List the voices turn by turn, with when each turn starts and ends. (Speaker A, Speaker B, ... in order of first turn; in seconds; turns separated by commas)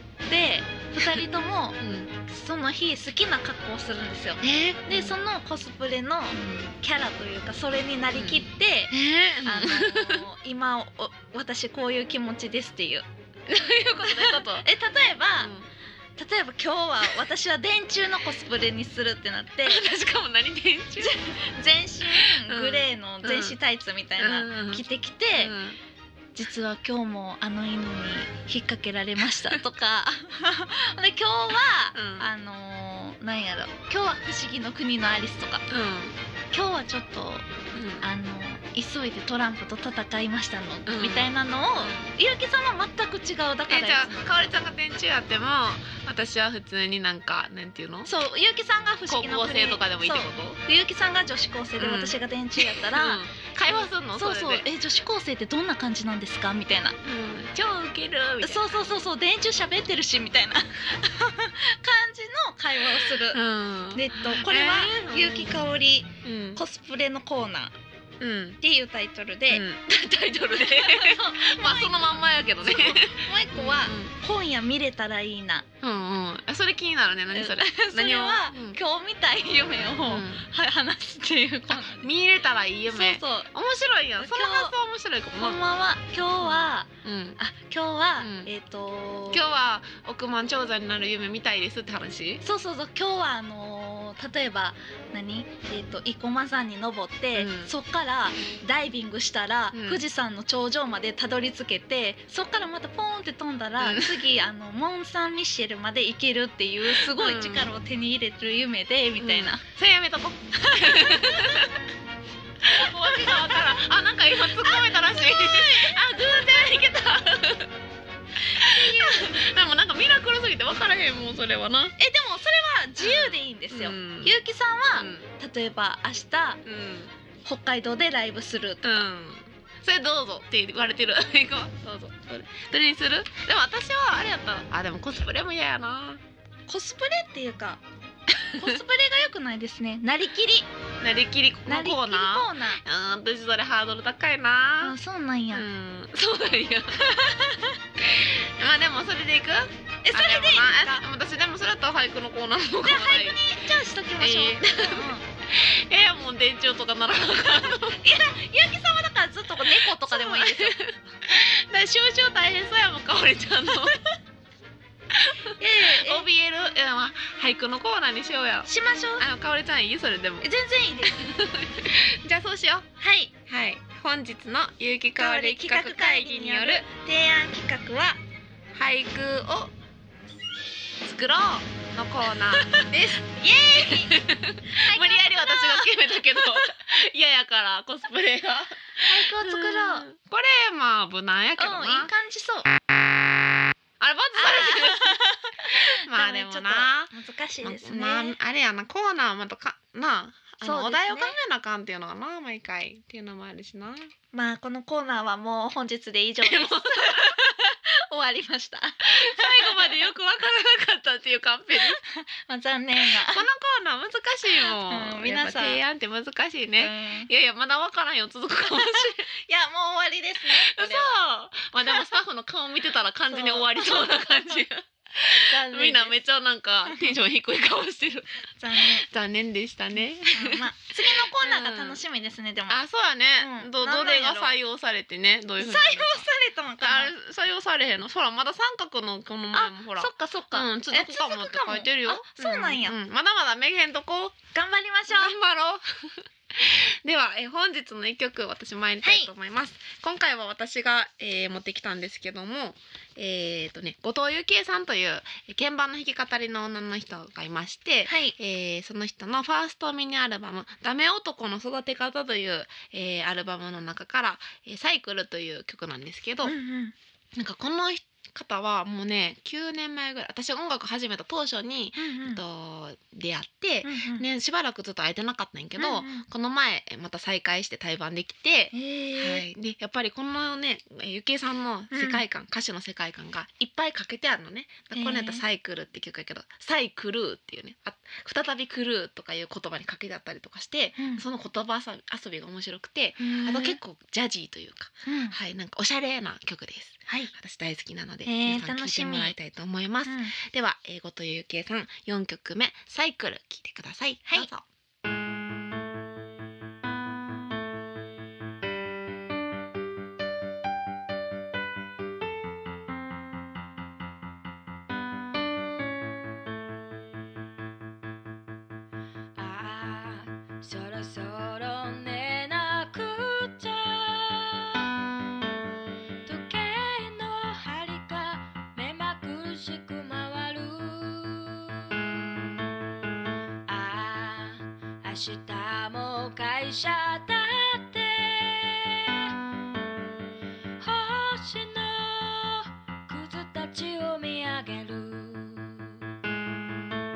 Speaker A: 0.3-8.9, Speaker B: 1.0-1.3, Speaker B: 1.8-2.1, Speaker B: 4.4-5.2, Speaker B: 6.3-6.7, Speaker B: 8.1-10.3, Speaker A: 9.4-13.1, Speaker B: 13.5-14.7, Speaker A: 14.0-15.5, Speaker B: 15.4-15.7, Speaker A: 16.2-19.9, Speaker B: 19.7-21.1, Speaker A: 21.0-25.5, Speaker B: 22.1-23.6, Speaker B: 24.2-25.8, Speaker A: 26.4-35.7, Speaker B: 31.9-32.3, Speaker B: 35.7-36.2, Speaker A: 36.5-37.5, Speaker B: 37.7-38.1, Speaker A: 38.0-44.5, Speaker B: 40.9-42.1, Speaker B: 43.7-48.1, Speaker A: 48.1-57.0, Speaker B: 49.1-50.6, Speaker B: 51.8-54.7, Speaker B: 57.0-58.6, Speaker A: 58.4-63.4, Speaker B: 63.1-65.6, Speaker A: 63.9-67.7, Speaker B: 66.2-66.6, Speaker B: 68.2-68.6, Speaker A: 68.6-69.6, Speaker B: 69.5-74.1, Speaker A: 70.6-75.7, Speaker B: 75.8-78.8, Speaker A: 77.3-82.1, Speaker B: 80.1-80.5, Speaker B: 81.7-85.6, Speaker A: 82.9-83.5, Speaker A: 84.2-84.7, Speaker A: 85.4-89.4, Speaker B: 86.4-87.4, Speaker B: 88.2-88.5, Speaker B: 89.3-92.4, Speaker A: 92.4-109.6, Speaker B: 97.3-97.7, Speaker B: 99.7-100.0, Speaker B: 103.8-104.2, Speaker B: 106.9-107.7, Speaker B: 109.2-111.7, Speaker A: 110.6-111.7, Speaker B: 112.6-117.7, Speaker A: 112.8-113.8, Speaker A: 114.6-116.7, Speaker A: 118.5-119.4, Speaker B: 118.5-122.0, Speaker A: 122.0-126.6, Speaker B: 123.0-124.4, Speaker B: 124.9-125.3, Speaker B: 126.6-127.1, Speaker A: 127.5-129.1, Speaker B: 128.8-136.2, Speaker A: 136.7-137.8, Speaker B: 138.4-138.8, Speaker A: 138.5-140.7, Speaker B: 141.0-145.0, Speaker A: 141.7-142.8, Speaker A: 144.8-145.7, Speaker B: 145.5-147.1, Speaker A: 147.0-147.8, Speaker B: 148.0-153.4, Speaker A: 150.1-151.0, Speaker A: 152.8-155.2, Speaker B: 154.2-158.0, Speaker A: 158.0-160.8, Speaker B: 159.6-164.0, Speaker A: 163.7-164.2, Speaker B: 165.1-170.5, Speaker A: 165.6-166.3, Speaker A: 168.7-169.3, Speaker A: 170.4-171.4, Speaker B: 171.0-172.9, Speaker A: 173.0-173.3, Speaker B: 173.5-176.9, Speaker A: 175.2-178.2, Speaker B: 178.7-179.7, Speaker B: 181.0-183.2, Speaker A: 182.5-184.2, Speaker B: 183.8-192.1, Speaker A: 184.7-186.7, Speaker A: 189.1-190.1, Speaker A: 191.6-192.7, Speaker B: 194.0-195.2, Speaker A: 194.3-198.4, Speaker B: 195.7-204.1, Speaker A: 200.6-201.3, Speaker A: 204.3-210.1, Speaker B: 206.4-207.4, Speaker B: 209.1-212.0, Speaker A: 211.8-213.4, Speaker B: 213.0-219.3, Speaker A: 214.5-215.8, Speaker A: 216.8-217.3, Speaker A: 218.7-221.2, Speaker B: 220.5-232.0, Speaker A: 223.3-224.6, Speaker A: 225.5-226.2, Speaker A: 228.6-229.1, Speaker A: 230.3-232.8, Speaker B: 232.7-236.3, Speaker A: 233.4-234.6, Speaker A: 235.6-237.1, Speaker B: 236.8-244.4, Speaker A: 239.5-243.0, Speaker A: 244.5-245.4, Speaker B: 245.1-266.5, Speaker A: 249.0-249.3, Speaker A: 258.1-258.4, Speaker A: 266.4-266.9, Speaker B: 267.4-304.6, Speaker A: 272.0-272.4, Speaker A: 273.8-274.3, Speaker A: 275.8-276.3, Speaker A: 278.7-279.5, Speaker A: 281.9-282.2, Speaker A: 284.9-285.4, Speaker A: 291.0-291.2, Speaker A: 293.2-293.8, Speaker A: 295.1-295.4, Speaker A: 297.1-297.3, Speaker A: 298.2-299.4, Speaker A: 300.1-300.3, Speaker C: 319.4-324.9, Speaker C: 326.2-332.1, Speaker C: 333.7-339.4, Speaker C: 340.8-346.0